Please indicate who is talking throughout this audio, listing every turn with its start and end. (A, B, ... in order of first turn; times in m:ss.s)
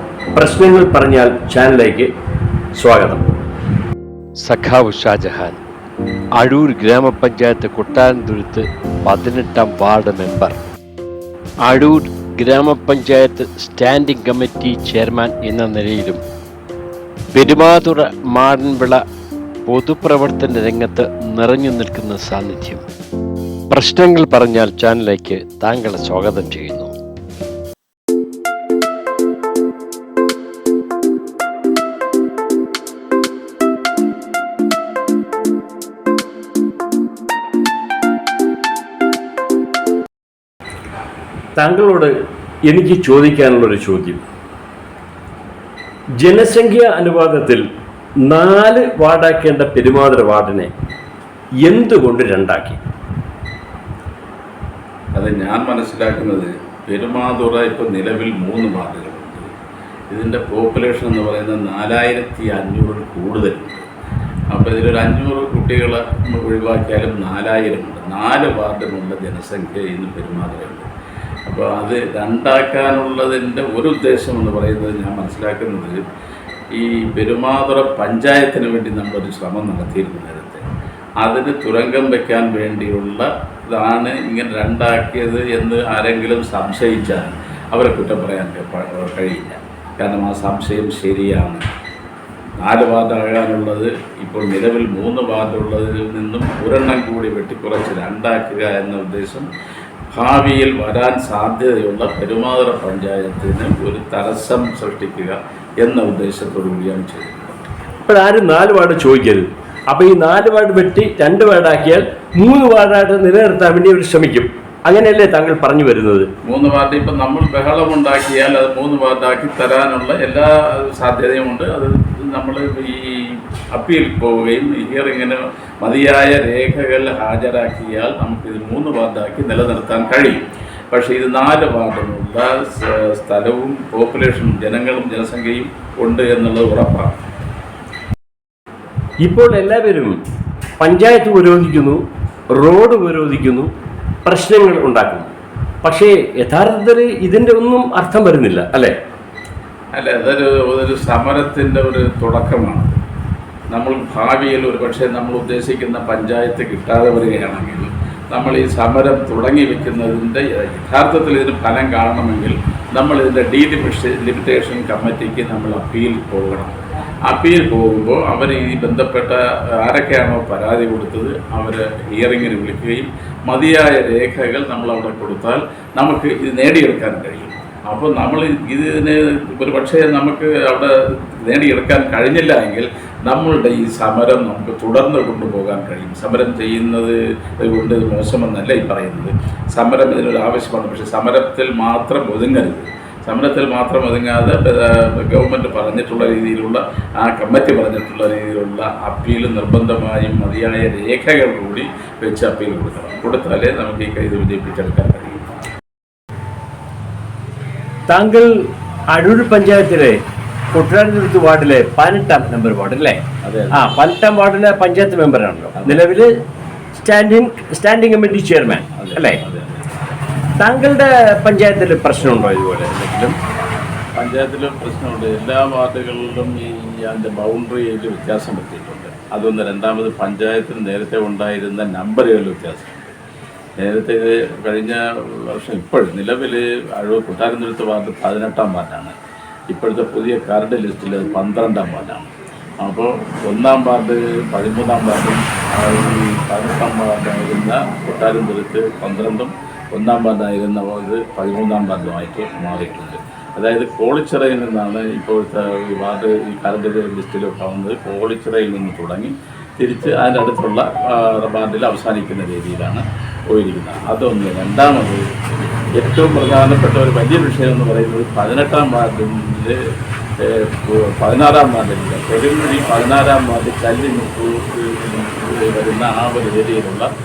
0:00.3-0:02.1 A
0:02.8-0:03.2 A
0:04.4-0:05.6 B
0:06.4-0:10.5 B
0:11.6-0:16.2 B
0:17.3-0:19.0 B
0:19.6-0:22.8 B
0:23.7-0:26.9 B
0:41.6-0:42.1 A
0:42.6-0:44.2 A
0:46.2-0:47.6 A
0:48.3-0:50.7 A
0:51.6-0:52.8 A
0:55.1-0:59.5 C
1:00.1-1:03.8 C
1:04.5-1:10.9 C
1:11.5-1:16.0 C
1:16.8-1:20.6 C
1:21.2-1:31.6 C
1:32.6-1:39.5 C
1:40.1-1:47.6 C
1:48.0-1:56.3 A
1:56.4-2:17.2 C
2:19.2-2:20.2 A
2:20.8-2:22.0 A
2:22.5-2:23.7 A
2:24.2-2:25.3 A
2:25.8-2:28.9 A
2:29.9-2:33.0 C
2:33.7-3:25.6 C
3:28.1-3:28.5 A
3:29.1-3:30.2 A
3:30.7-3:33.2 A
3:33.4-3:33.8 C
3:33.7-3:36.3 A
3:35.8-3:36.0 C
3:37.0-3:39.4 A
3:38.9-3:40.1 C
3:40.6-3:43.4 A
3:44.2-3:53.1 C
3:53.8-3:59.1 C
3:59.7-4:02.3 C
4:02.8-4:25.2 C
4:26.0-4:29.8 C
4:30.4-4:37.1 C